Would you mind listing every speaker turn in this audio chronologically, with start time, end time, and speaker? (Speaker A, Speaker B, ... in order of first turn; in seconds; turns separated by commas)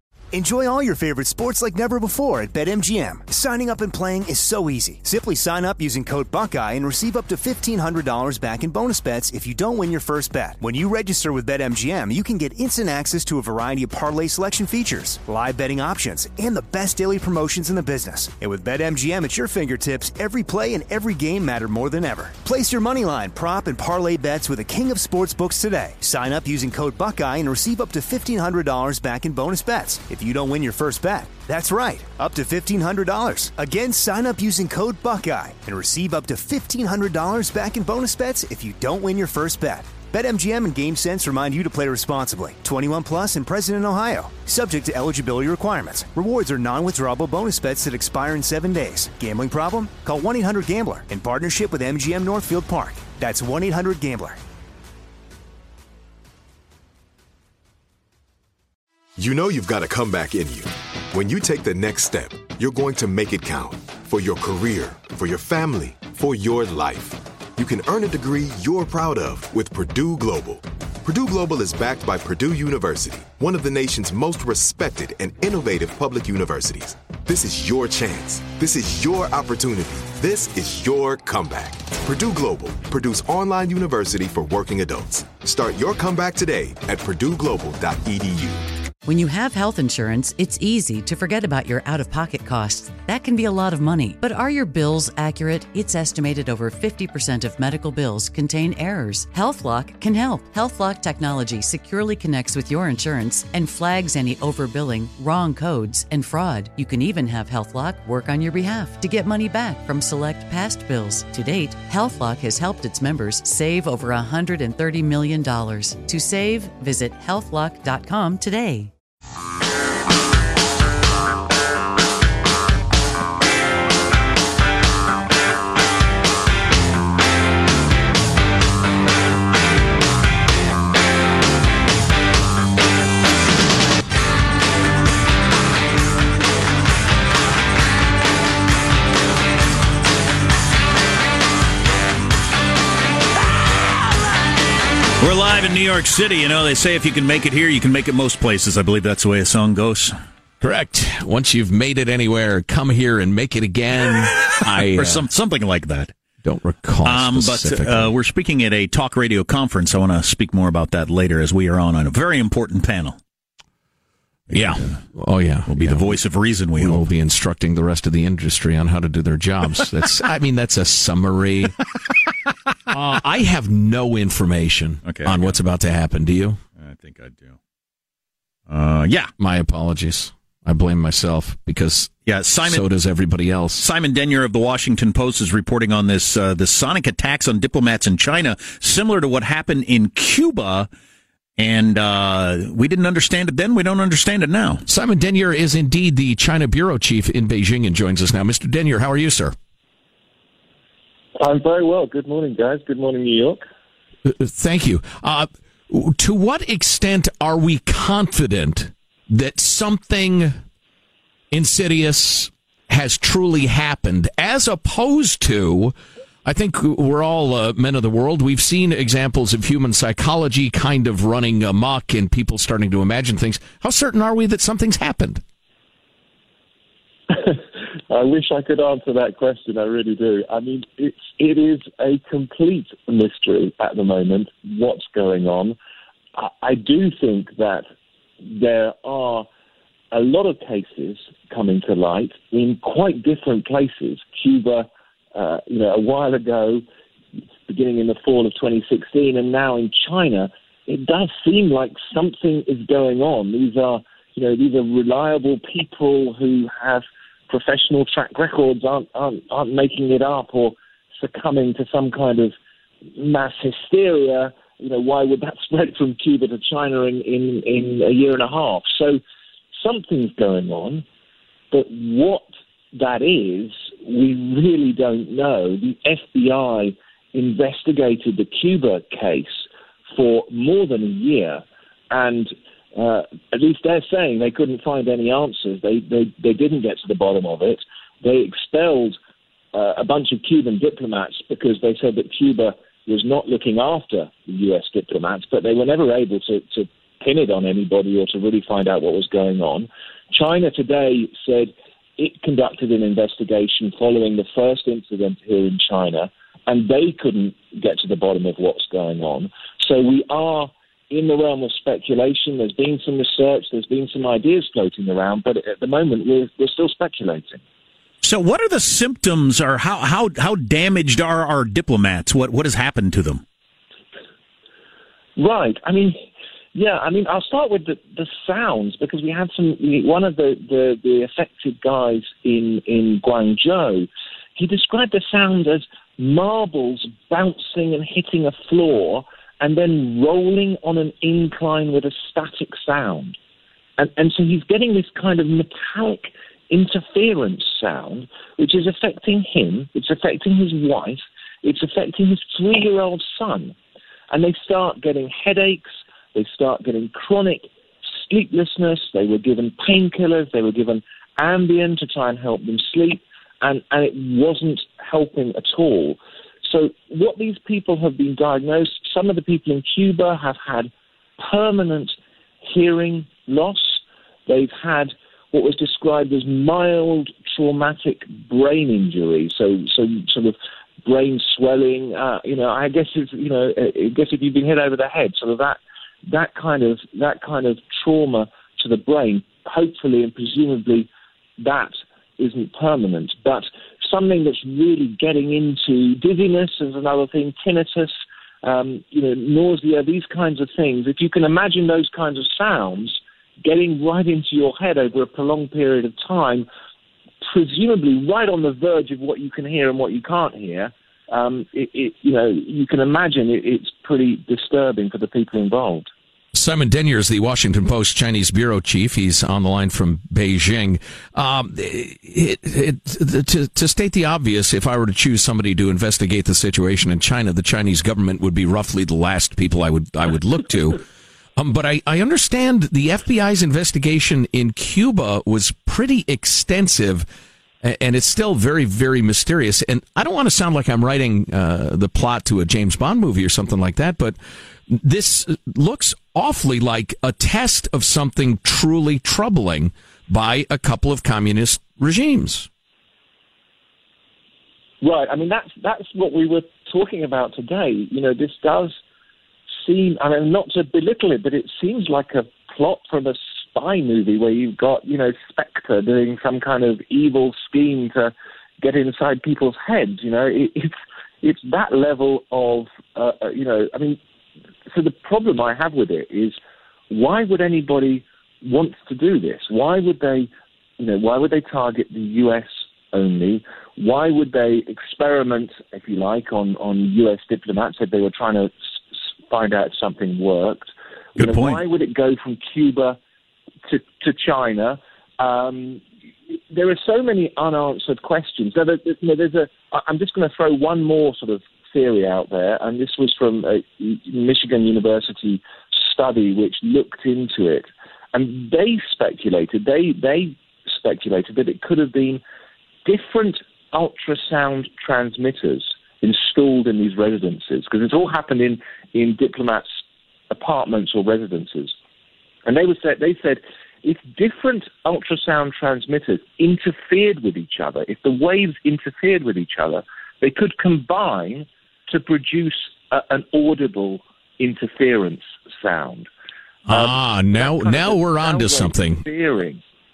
Speaker A: 0.3-54.4, Speaker B: 59.2-88.6, Speaker C: 89.0-118.9, Speaker D: 145.2-150.1, Speaker E: 150.6-155.3, Speaker D: 154.6-156.1, Speaker E: 156.4-158.1, Speaker D: 157.0-163.2, Speaker E: 164.5-166.2, Speaker D: 165.7-167.0, Speaker E: 166.8-171.8, Speaker E: 172.9-176.6, Speaker D: 175.0-175.6, Speaker D: 176.8-177.6, Speaker D: 178.7-179.3, Speaker E: 179.4-182.1, Speaker D: 182.3-182.8, Speaker E: 182.6-183.8, Speaker D: 183.8-190.9, Speaker D: 191.6-194.8, Speaker E: 194.9-199.5, Speaker F: 201.4-203.6, Speaker E: 204.2-210.6, Speaker E: 211.5-215.9, Speaker E: 216.4-225.4, Speaker F: 227.3-235.8, Speaker F: 236.4-237.8, Speaker F: 238.4-239.5, Speaker F: 240.1-246.8, Speaker F: 247.7-262.5, Speaker F: 263.1-269.2, Speaker F: 269.8-271.0, Speaker F: 271.7-279.6, Speaker F: 280.1-289.2, Speaker F: 289.7-317.6, Speaker D: 318.2-323.4, Speaker F: 325.4-326.2, Speaker F: 326.7-343.4, Speaker F: 344.0-353.7, Speaker F: 354.3-357.7, Speaker F: 358.3-391.1, Speaker F: 391.6-406.7, Speaker F: 407.4-416.1, Speaker E: 416.5-431.0, Speaker E: 431.6-437.2, Speaker E: 437.8-452.7, Speaker F: 455.0-458.9, Speaker F: 459.8-474.2, Speaker F: 474.9-476.6, Speaker F: 477.1-488.7, Speaker F: 489.5-493.2, Speaker D: 491.4-491.8, Speaker F: 493.9-496.0, Speaker F: 496.7-512.4, Speaker F: 513.0-519.9, Speaker F: 520.5-521.9, Speaker F: 522.6-536.3, Speaker E: 536.9-539.2, Speaker F: 536.9-539.8